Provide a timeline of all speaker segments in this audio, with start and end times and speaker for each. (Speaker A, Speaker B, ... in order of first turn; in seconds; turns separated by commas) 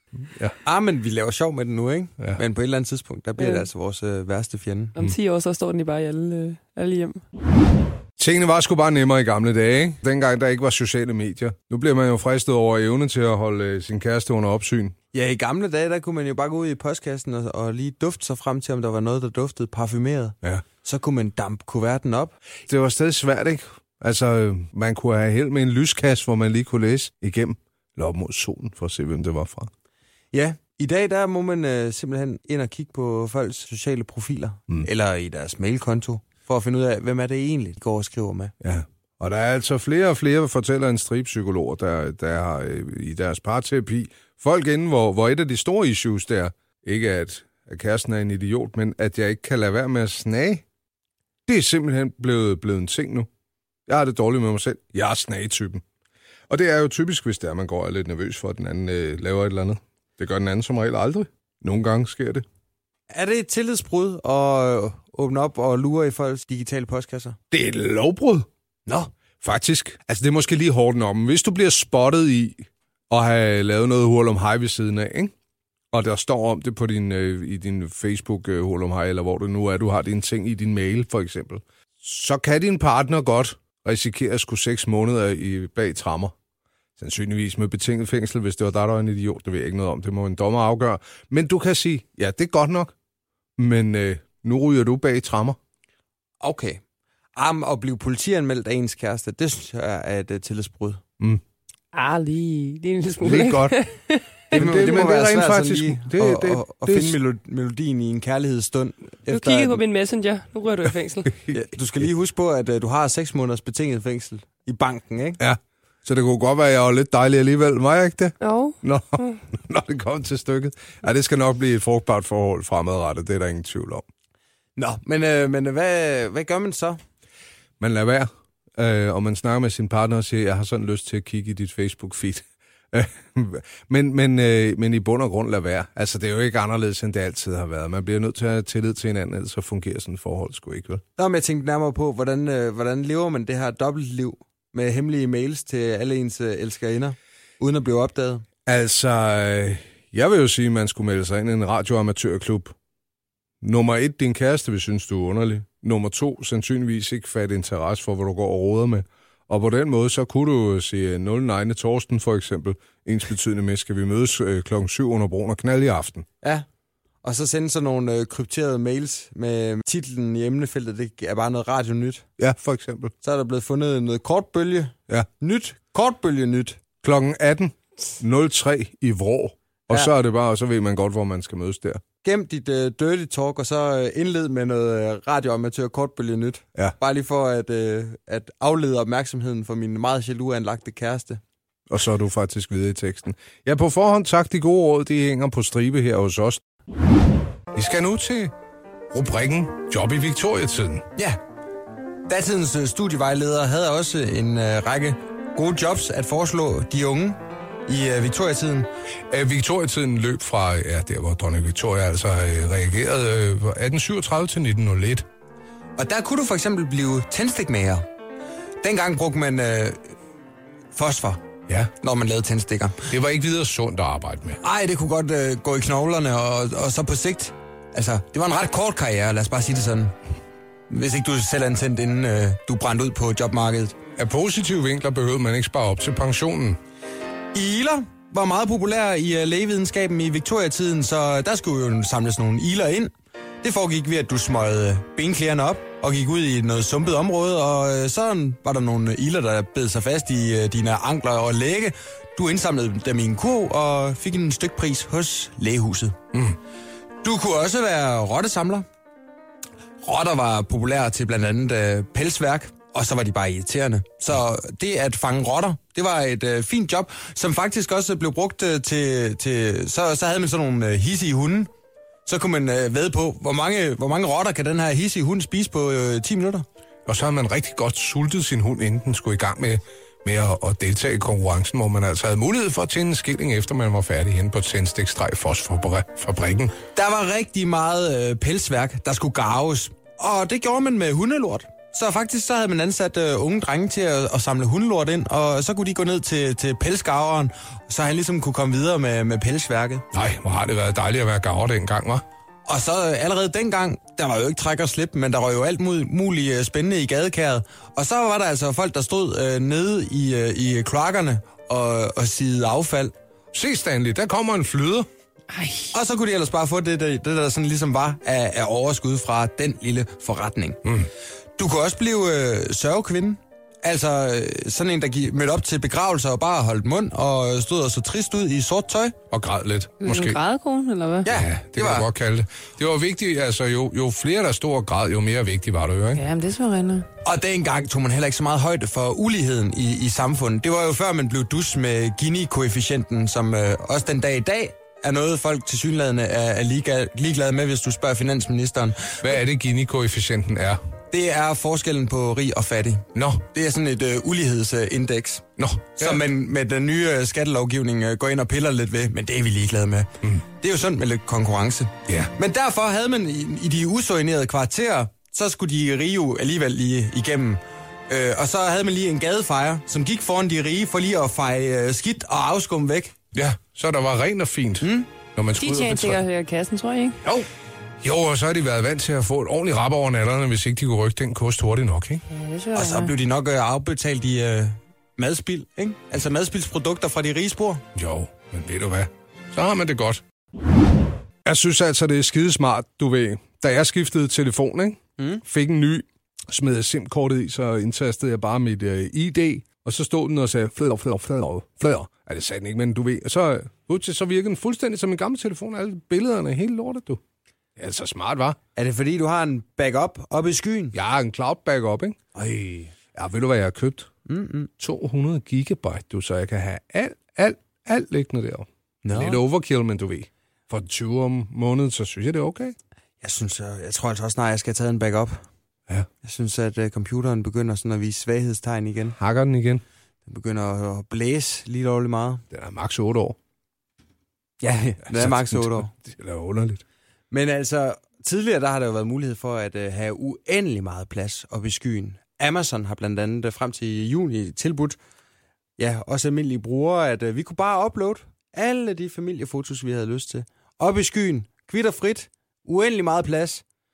Speaker A: 0.1-0.5, Speaker B: 0.6-4.9, Speaker C: 3.4-3.6, Speaker C: 5.0-7.2, Speaker A: 8.2-14.9, Speaker B: 15.1-22.3, Speaker A: 22.7-29.7, Speaker B: 30.3-38.5, Speaker A: 38.6-50.6, Speaker A: 51.5-53.3, Speaker A: 53.9-55.8, Speaker A: 56.5-62.4, Speaker B: 63.1-67.4, Speaker A: 67.5-68.5, Speaker A: 69.4-75.3, Speaker A: 75.9-86.3, Speaker A: 87.0-92.9, Speaker A: 93.6-95.6, Speaker B: 96.4-96.8, Speaker B: 97.3-101.0, Speaker C: 101.9-104.2, Speaker A: 103.2-103.8, Speaker A: 104.5-107.2, Speaker B: 104.5-109.8, Speaker C: 109.3-111.3, Speaker B: 111.5-115.4, Speaker A: 115.4-124.0, Speaker C: 118.4-119.4, Speaker B: 124.8-127.0, Speaker A: 127.8-141.0, Speaker B: 141.2-148.4, Speaker A: 148.7-152.7, Speaker A: 153.6-166.2, Speaker B: 167.2-172.3, Speaker A: 172.4-173.1, Speaker B: 173.2-176.8, Speaker A: 177.0-182.0, Speaker B: 182.2-191.4, Speaker A: 191.9-196.6, Speaker A: 197.7-198.5, Speaker A: 199.1-201.1, Speaker B: 202.3-208.9, Speaker A: 209.3-215.2, Speaker B: 216.0-218.0, Speaker B: 218.8-220.1, Speaker B: 220.9-221.4, Speaker B: 222.0-223.1, Speaker A: 223.1-224.6, Speaker B: 224.6-230.1, Speaker B: 230.9-234.0, Speaker A: 234.2-236.8, Speaker B: 237.5-256.2, Speaker B: 257.2-258.9, Speaker B: 260.0-271.7, Speaker B: 272.2-276.6, Speaker A: 277.1-286.8, Speaker B: 286.9-300.0, Speaker A: 300.1-302.2, Speaker B: 302.6-313.1, Speaker A: 313.5-315.1, Speaker C: 315.5-315.9, Speaker B: 315.9-320.9, Speaker B: 321.6-329.1, Speaker A: 329.3-330.4, Speaker C: 330.0-331.3, Speaker B: 331.2-332.1, Speaker A: 331.3-336.2, Speaker C: 336.1-337.1, Speaker B: 337.2-349.3, Speaker A: 349.2-350.8, Speaker B: 351.1-373.1, Speaker A: 353.1-353.4, Speaker A: 355.6-356.2, Speaker A: 362.1-362.3, Speaker A: 373.3-376.2, Speaker B: 374.8-375.1, Speaker C: 375.6-377.2, Speaker A: 378.0-382.2, Speaker C: 382.3-383.1, Speaker B: 382.7-387.8, Speaker A: 387.9-390.2, Speaker A: 391.4-407.2, Speaker B: 395.2-395.4, Speaker A: 407.8-408.6, Speaker B: 408.8-410.9, Speaker A: 410.9-412.2, Speaker B: 412.3-412.9, Speaker A: 413.1-414.1, Speaker B: 414.2-414.7, Speaker A: 414.8-422.8, Speaker B: 419.0-419.4, Speaker B: 423.2-425.4, Speaker B: 426.2-429.2, Speaker A: 429.1-429.8, Speaker B: 430.2-432.4, Speaker A: 432.5-433.4, Speaker B: 434.6-435.9, Speaker A: 435.1-436.8, Speaker B: 437.3-445.0, Speaker B: 445.8-453.6